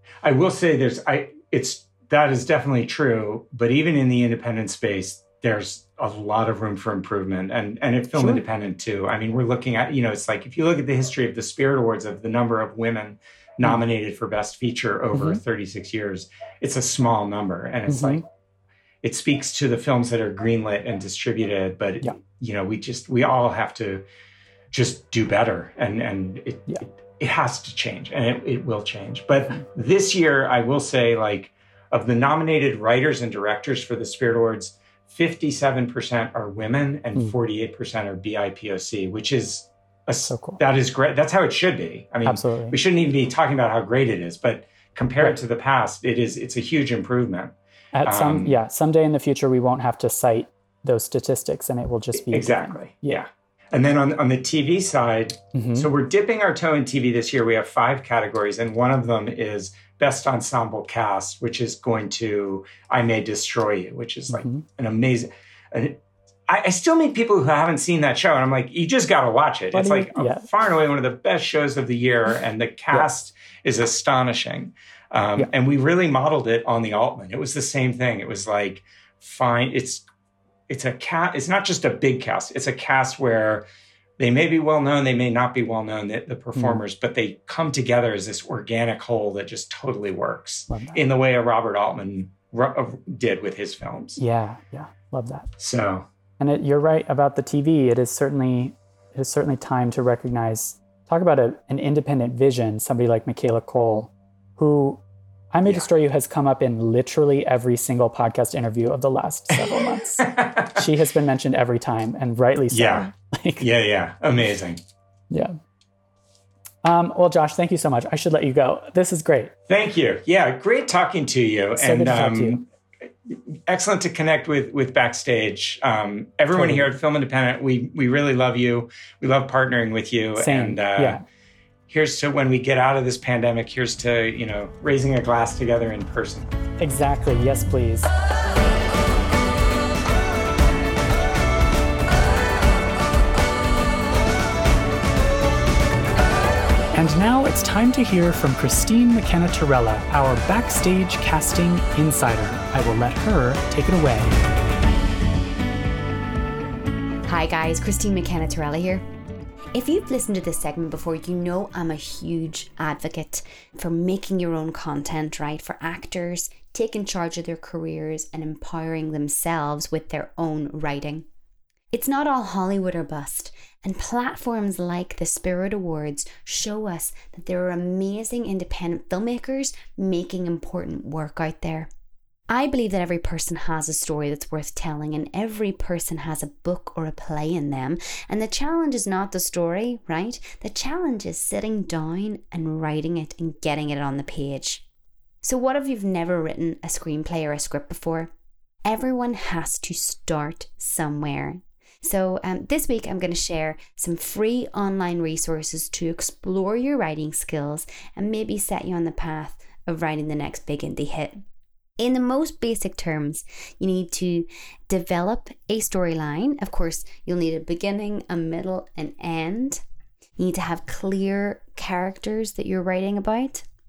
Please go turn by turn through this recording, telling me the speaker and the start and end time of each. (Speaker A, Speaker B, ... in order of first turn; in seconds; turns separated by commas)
Speaker A: 0.2-18.2, Speaker B: 8.1-8.4, Speaker B: 15.1-15.4, Speaker B: 17.9-18.2, Speaker A: 19.0-24.1, Speaker A: 24.7-48.5, Speaker B: 40.3-40.6, Speaker B: 42.3-42.8, Speaker B: 47.9-53.2, Speaker A: 52.3-80.1, Speaker B: 55.5-55.9, Speaker B: 64.3-64.6, Speaker B: 69.7-70.5, Speaker A: 80.7-83.6, Speaker A: 84.2-94.2, Speaker B: 86.5-86.8, Speaker B: 90.7-91.0, Speaker B: 94.2-95.5, Speaker A: 95.6-96.1, Speaker B: 96.4-105.0, Speaker B: 105.5-113.7, Speaker A: 110.2-110.7, Speaker A: 112.7-113.1, Speaker A: 113.6-114.8, Speaker B: 115.3-115.5, Speaker B: 116.8-119.5, Speaker A: 119.7-122.6, Speaker B: 121.8-122.6, Speaker A: 123.3-131.2, Speaker B: 126.5-126.9, Speaker B: 130.4-131.2, Speaker A: 131.9-136.5, Speaker B: 136.8-138.1, Speaker B: 146.9-154.4, Speaker C: 157.3-159.0, Speaker C: 159.7-171.3, Speaker C: 171.9-181.9, Speaker C: 182.5-194.8, Speaker C: 195.4-198.3, Speaker C: 198.8-211.4, Speaker C: 212.0-219.8, Speaker C: 220.4-223.6